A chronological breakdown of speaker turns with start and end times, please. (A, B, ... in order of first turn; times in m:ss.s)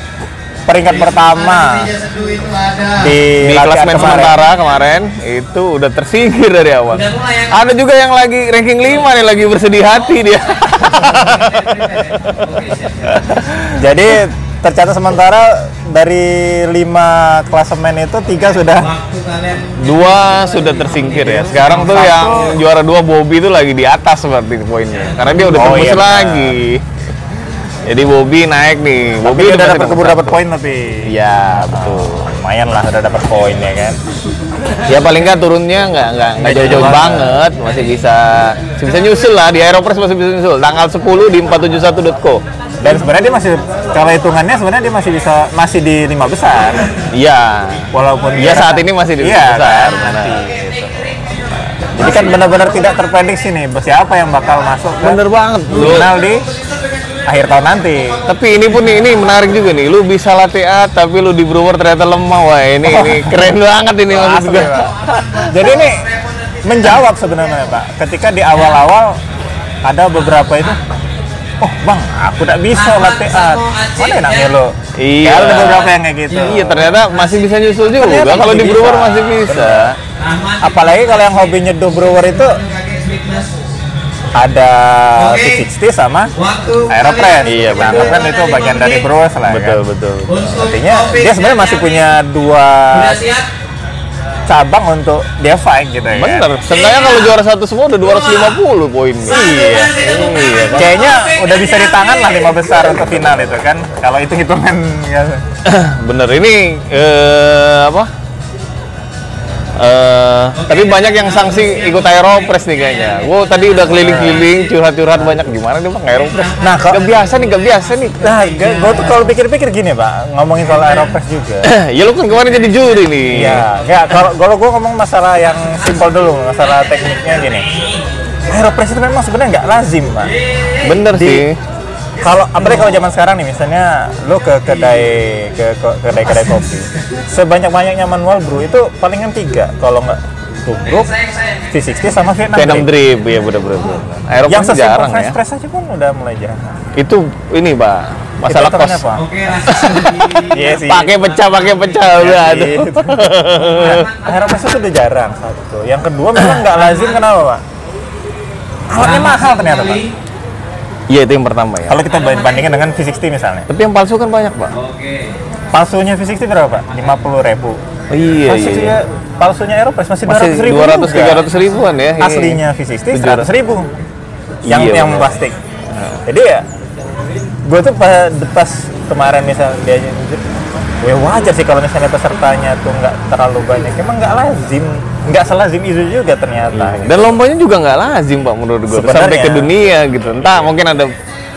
0:00.7-0:01.9 A
0:00.8-0:03.2 B
0:03.0-0:04.4 A
0:03.4-0:12.5 C
0:06.9-0:07.8 B
0:09.8-0:13.5 B
0:13.0-0:13.8 C
0:13.8-0:18.9 A
0:18.7-0:22.1 B
0:19.7-0:26.8 C
0:21.7-0:22.6 A
0:24.9-0:25.6 B
0:25.4-0:26.6 A
0:27.9-0:30.4 C
0:29.2-0:34.0 A
0:31.0-0:32.3 C
0:34.8-0:42.4 C
0:36.4-0:37.4 A
0:42.8-0:46.9 A
0:47.1-0:50.6 C
0:47.9-0:51.2 A
0:50.1-0:51.4 B
0:51.5-0:52.4 C
0:52.0-0:56.5 A
0:55.0-0:56.1 C
0:55.7-0:57.4 B
0:57.3-0:58.2 A
0:58.0-0:59.4 B
0:58.2-1:05.8 C
1:02.8-1:03.5 A
1:04.1-1:04.9 A
1:04.7-1:06.9 B
1:05.5-1:06.1 A
1:06.6-1:09.2 A
1:09.8-1:10.8 A
1:11.6-1:17.0 A
1:12.7-1:14.5 B
1:15.0-1:20.0 C
1:16.3-1:17.9 B
1:18.0-1:19.9 A
1:20.1-1:23.6 B
1:20.6-1:22.6 A
1:24.3-1:26.3 A
1:25.2-1:25.6 B
1:26.3-1:29.1 B
1:26.9-1:29.8 A
1:27.4-1:28.3 C
1:29.5-1:30.4 C
1:30.3-1:32.1 B
1:30.5-1:33.2 A
1:32.9-1:33.5 B
1:34.4-1:36.5 A
1:36.1-1:41.1 C
1:36.6-1:37.4 B
1:38.0-1:38.6 B
1:39.2-1:42.9 B
1:40.7-1:45.4 A
1:42.9-1:43.6 C
1:45.6-1:48.1 C
1:49.8-1:58.3 C
1:50.5-1:54.8 B
1:53.9-1:54.5 A
1:56.1-1:59.3 B
1:56.6-1:57.0 A
1:58.2-2:01.7 A
2:00.6-2:01.1 B
2:01.6-2:03.6 C
2:02.5-2:03.1 B
2:03.3-2:07.7 A
2:06.6-2:08.0 B
2:08.5-2:10.4 A
2:10.3-2:11.1 B
2:10.8-2:11.6 C
2:11.1-2:11.5 A
2:12.2-2:21.1 A
2:20.8-2:21.7 B
2:21.7-2:22.9 A
2:22.5-2:25.4 C
2:24.5-2:26.7 A
2:27.0-2:29.1 C
2:28.5-2:29.2 A
2:29.1-2:32.0 B
2:29.6-2:34.1 C
2:30.5-2:31.2 A
2:32.1-2:37.6 A
2:33.6-2:34.6 B
2:36.6-2:37.2 B
2:38.9-2:40.0 A
2:39.0-2:40.1 B
2:41.1-2:42.0 C
2:41.9-2:43.7 A
2:42.0-2:42.7 B
2:43.7-2:44.8 C
2:44.7-2:45.4 B
2:45.7-2:47.8 A
2:48.1-2:48.9 C
2:48.4-2:51.5 A
2:50.2-2:52.6 C
2:52.2-2:53.9 A
2:53.1-2:53.5 C
2:54.6-2:55.3 C
2:54.7-2:55.5 A
2:55.9-2:56.2 C
2:56.2-2:56.6 A
2:57.6-3:00.4 A
3:01.0-3:07.4 A
3:06.7-3:11.1 C
3:08.9-3:09.7 A